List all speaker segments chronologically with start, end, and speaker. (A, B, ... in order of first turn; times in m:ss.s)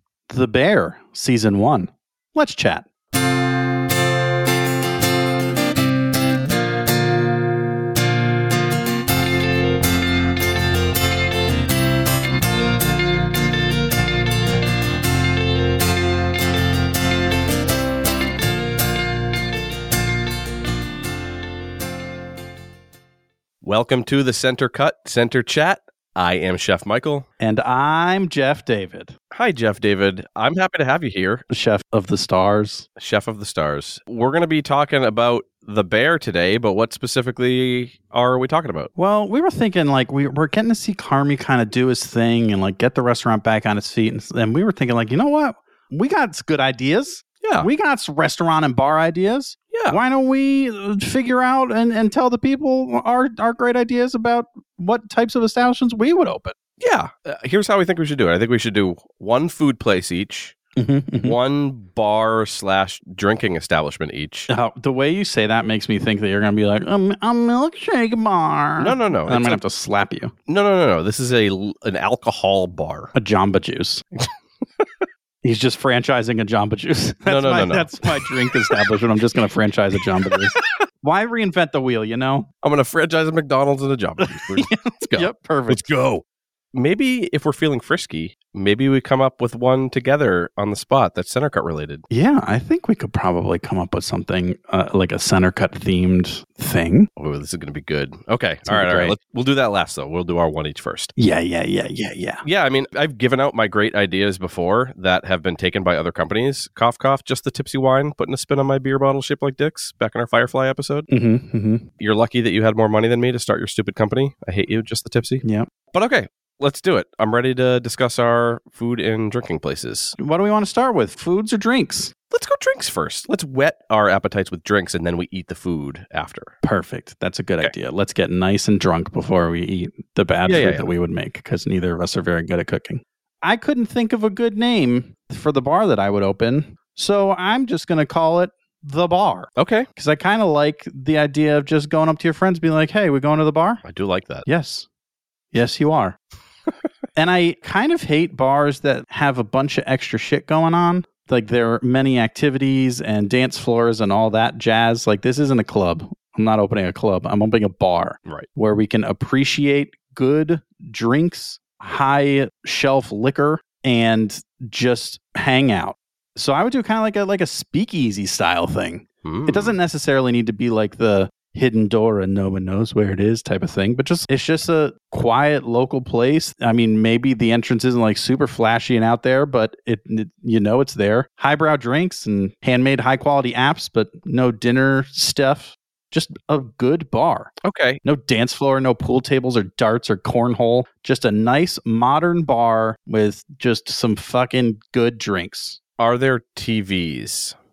0:00.3-0:02.9 A
0:23.6-0:27.3 B
0:27.4-0:29.2 A
0:29.3-0:31.4 B
0:31.5-0:32.9 A
0:33.0-0:38.9 B
0:39.0-0:56.6 A
0:47.4-0:47.7 B
0:49.7-0:50.0 B
0:56.8-1:00.6 B
1:00.8-1:01.4 A
1:01.2-1:04.5 B
1:04.5-1:10.3 A
1:08.8-1:09.6 B
1:10.5-1:13.1 B
1:13.1-1:14.0 A
1:15.4-1:22.5 A
1:17.3-1:18.8 B
1:22.6-1:26.2 B
1:24.3-1:25.9 A
1:26.7-1:32.0 B
1:32.1-1:37.1 A
1:37.2-1:41.1 B
1:38.7-1:39.2 A
1:41.2-1:42.4 A
1:42.4-1:51.1 B
1:51.1-1:51.9 A
1:52.0-1:55.4 B
1:55.9-2:00.2 B
2:00.2-2:02.1 A
2:02.3-2:06.5 B
2:06.6-2:23.8 A
2:10.5-2:10.9 B
2:19.6-2:19.9 B
2:23.8-2:24.4 B
2:24.4-2:24.9 A
2:25.5-2:26.2 A
2:27.2-3:15.8 A
2:49.2-2:49.8 B
3:07.6-3:08.0 B
3:16.0-3:17.6 B